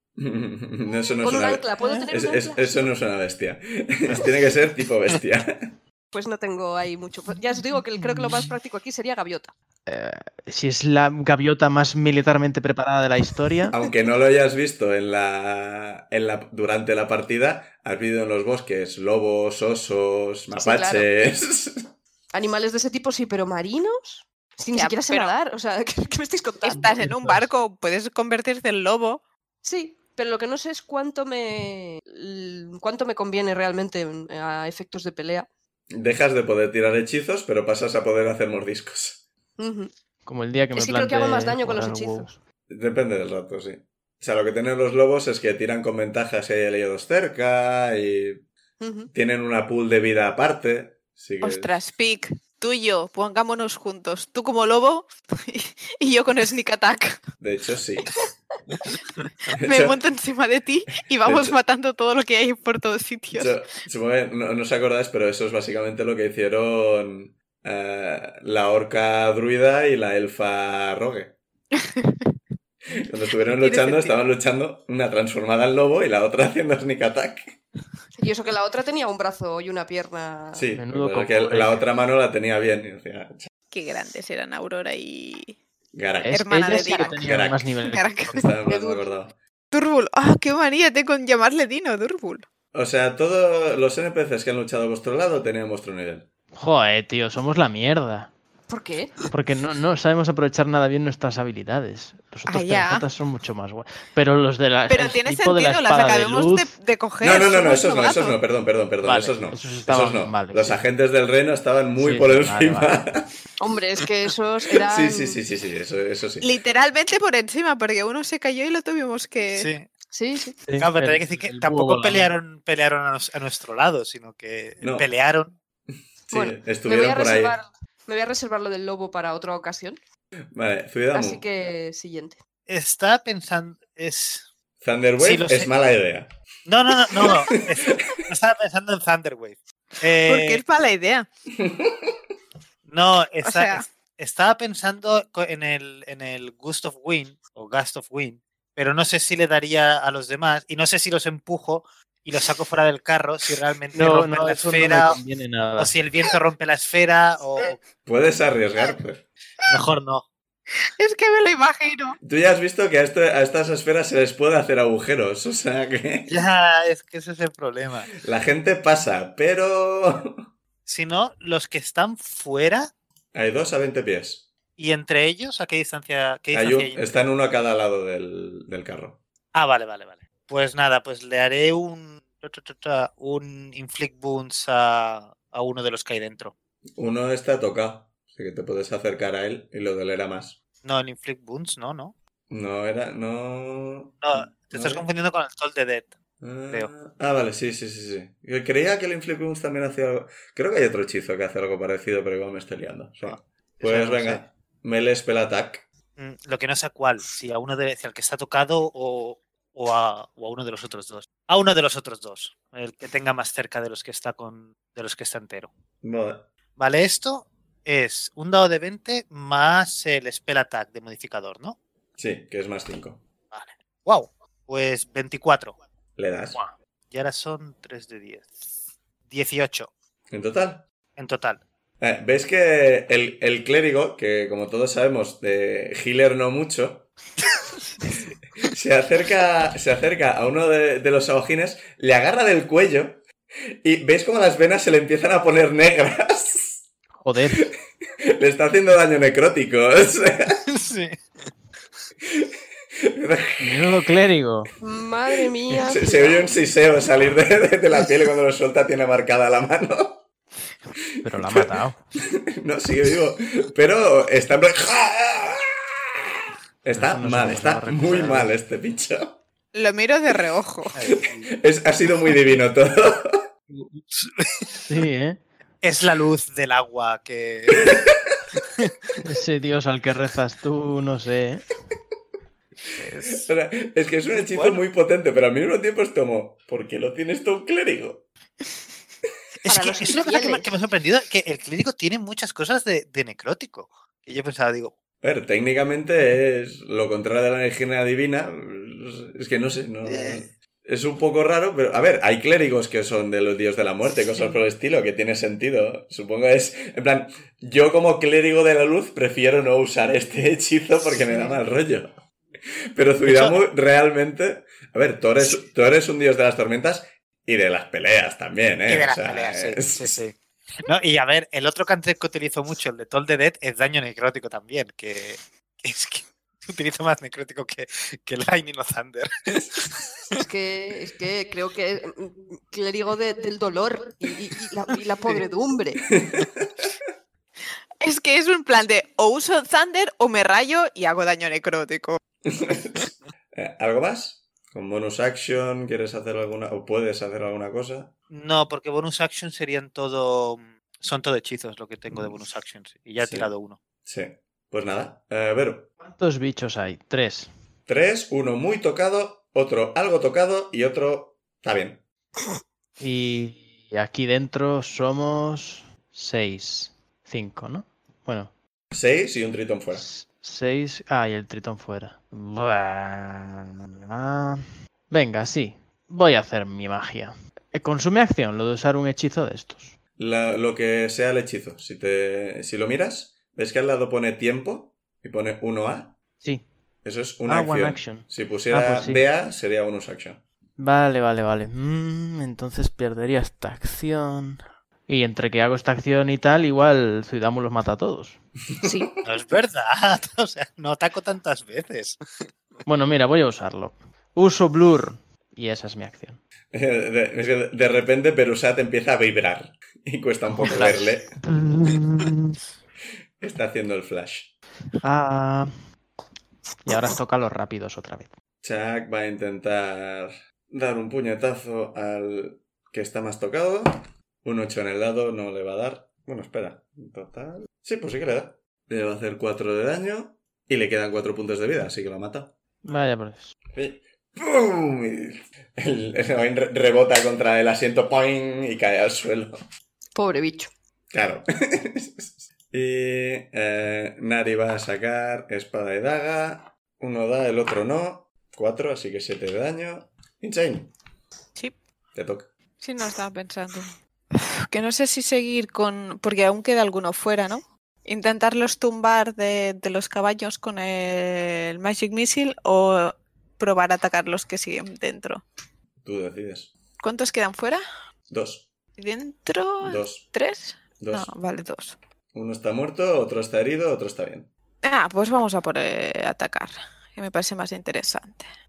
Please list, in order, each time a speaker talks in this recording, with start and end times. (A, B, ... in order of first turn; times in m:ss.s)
0:00.2-0:05.7 A
0:01.2-0:02.9 B
0:06.1-0:09.5 B
0:09.9-0:13.8 C
0:13.7-0:21.8 A
0:20.6-0:21.1 B
0:22.3-0:27.0 B
0:24.7-0:25.3 D
0:26.6-0:29.2 D
0:27.0-0:27.4 C
0:29.6-0:35.5 B
0:35.9-0:39.2 A
0:39.6-0:39.9 B
0:40.2-0:42.3 C
0:40.7-0:42.3 B
0:42.7-0:48.4 A
0:48.8-0:49.1 B
0:49.1-0:51.7 A
0:51.4-0:57.2 D
0:57.4-0:58.2 A
0:59.5-1:03.6 D
0:59.6-1:00.0 A
1:01.2-1:01.6 A
1:03.3-1:11.3 A
1:12.0-1:12.2 D
1:12.9-1:17.6 A
1:13.5-1:14.1 D
1:18.2-1:20.6 B
1:20.5-1:23.5 A
1:20.7-1:21.8 C
1:23.7-1:25.6 D
1:25.9-1:27.6 A
1:26.2-1:28.0 C
1:26.3-1:27.3 D
1:27.8-1:28.5 D
1:28.3-1:29.3 A
1:28.6-1:29.2 B
1:29.7-1:32.4 D
1:32.7-1:36.3 A
1:36.5-1:38.3 C
1:38.7-1:39.2 B
1:39.3-1:46.7 C
1:42.5-1:43.0 D
1:44.9-1:48.4 D
1:47.2-1:53.3 A
1:49.0-1:50.9 C
1:52.0-1:53.0 C
1:53.6-1:55.4 B
1:54.8-1:56.5 A
1:56.4-1:59.7 D
1:59.5-1:59.9 E
2:00.1-2:00.6 B
2:00.6-2:02.3 C
2:00.8-2:05.6 E
2:04.8-2:05.1 A
2:06.3-2:07.6 A
2:06.3-2:10.0 B
2:10.5-2:11.4 A
2:11.1-2:12.4 B
2:12.7-2:14.5 E
2:14.8-2:16.3 A
2:15.2-2:15.7 E
2:16.6-2:20.6 E
2:17.1-2:18.1 A
2:20.1-2:21.3 D
2:21.6-2:22.2 A
2:22.8-2:35.2 E
2:23.4-2:23.8 D
2:33.9-2:35.9 C
2:35.8-2:37.8 E
2:38.0-2:39.2 A
2:39.7-2:40.2 E
2:41.0-2:42.2 D
2:42.2-2:46.4 A
2:46.3-2:48.1 E
2:48.2-2:50.4 A
2:50.8-2:52.9 E
2:53.3-2:54.5 A
2:54.8-2:57.2 E
2:56.5-2:59.2 A
2:59.5-3:06.5 E
3:07.0-3:10.6 A
3:10.8-3:12.1 E
3:12.5-3:15.0 A
3:14.2-3:16.1 E
3:16.4-3:25.8 A
3:23.2-3:24.4 E
3:26.2-3:35.7 E
3:36.0-3:36.5 A
3:36.8-3:41.8 E
3:42.2-3:43.2 A
3:43.5-3:45.8 E
3:46.2-3:46.6 A
3:47.1-3:48.5 E
3:49.2-3:49.9 E
3:50.3-3:50.8 A
3:51.2-3:51.6 E
3:52.0-3:57.1 A
3:58.6-4:03.2 A
4:03.8-4:06.8 A
4:07.2-4:07.7 C
4:08.3-4:10.6 A
4:10.7-4:11.2 E
4:12.2-4:13.9 A
4:13.6-4:14.7 C
4:14.8-4:16.6 B
4:15.7-4:20.2 A
4:21.2-4:22.0 C
4:21.3-4:21.7 A
4:22.3-4:25.8 A
4:26.8-4:29.4 A
4:26.9-4:28.5 C
4:29.7-4:31.0 D
4:30.9-4:31.5 E
4:31.5-4:33.4 A
4:34.0-4:34.9 E
4:34.9-4:35.4 C
4:35.8-4:38.0 E
4:37.8-4:38.3 A
4:38.6-4:38.9 E
4:39.2-4:41.6 C
4:43.3-4:48.2 A
4:44.3-4:44.8 E
4:49.6-4:54.9 E
4:49.6-4:50.7 B
4:55.2-5:12.2 A
5:00.1-5:00.4 E
5:12.9-5:20.2 A
5:18.9-5:30.4 E
5:30.4-5:36.0 B
5:36.2-5:36.9 A
5:38.0-5:42.2 D
5:42.5-5:48.1 A
5:48.3-5:53.8 E
5:53.2-5:53.5 A
5:54.0-5:55.9 A
5:56.0-5:57.5 C
5:57.9-6:02.0 A
6:03.0-6:08.5 C
6:08.9-6:10.0 A
6:09.9-6:19.9 C
6:20.2-6:26.1 A
6:27.0-6:30.4 A
6:27.4-6:29.2 C
6:30.8-6:38.4 C
6:38.8-6:39.1 B
6:39.2-6:42.2 E
6:42.8-6:46.4 C
6:46.7-6:51.3 A
6:50.5-6:52.6 C
6:50.7-6:51.1 E
6:53.4-6:54.5 A
6:55.0-6:55.7 C
6:56.8-6:58.3 C
6:58.6-7:12.5 A
7:12.8-7:13.5 C
7:13.7-7:19.6 A
7:20.1-7:20.7 B
7:21.1-7:30.9 A
7:32.1-7:32.5 A
7:32.8-7:45.4 D
7:46.0-7:46.7 A
7:47.0-7:47.8 D
7:48.3-7:48.7 A
7:49.0-7:52.0 D
7:49.8-7:50.2 A
7:51.0-7:51.3 A
7:52.3-7:54.5 A
7:54.8-7:58.5 D